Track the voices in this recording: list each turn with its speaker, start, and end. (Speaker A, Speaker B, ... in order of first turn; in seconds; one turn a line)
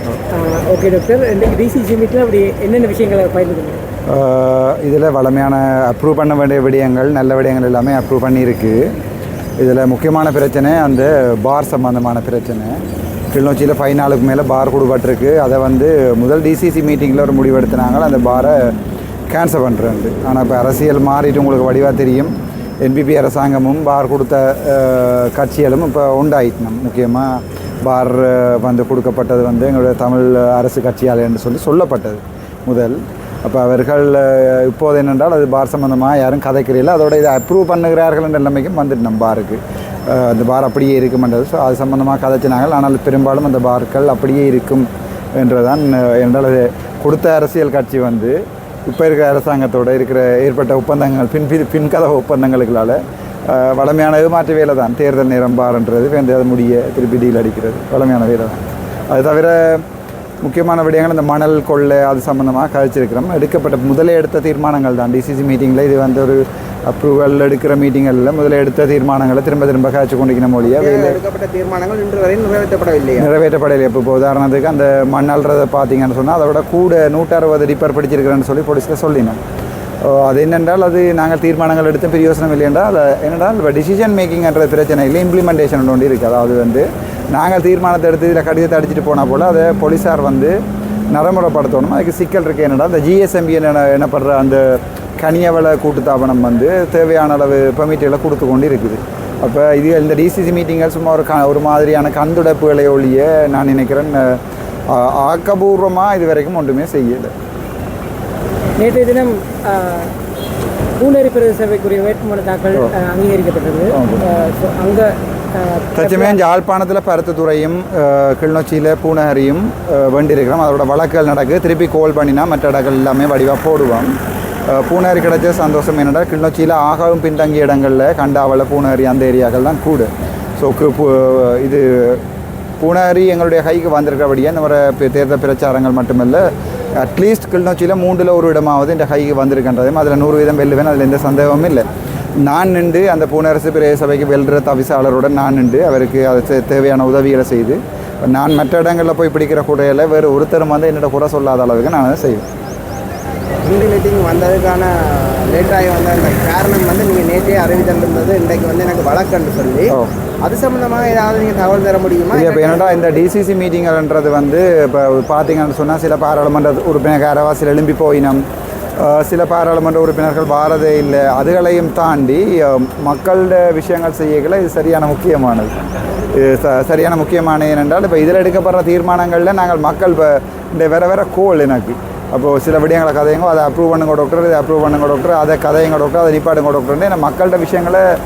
Speaker A: 0.3-3.8
Speaker B: 4.1-8.9
Speaker B: 9.6-12.8
Speaker B: 13.3-18.7
Speaker B: 19.3-48.4
Speaker B: 48.9-59.8
Speaker B: 60.4-71.2
Speaker C: 70.6-73.3
Speaker B: 73.2-79.4
Speaker B: 80.0-90.5
Speaker B: 91.1-104.4
Speaker B: 104.9-107.3
Speaker A: 108.8-110.1
Speaker A: 111.0-116.4
Speaker B: 113.9-114.2
Speaker B: 116.0-124.1
Speaker B: 124.7-132.2
Speaker B: 132.8-141.9
Speaker B: 142.4-152.5
Speaker C: 153.7-163.0
Speaker B: 162.3-168.4
Speaker B: 169.0-175.7
Speaker B: 176.3-188.1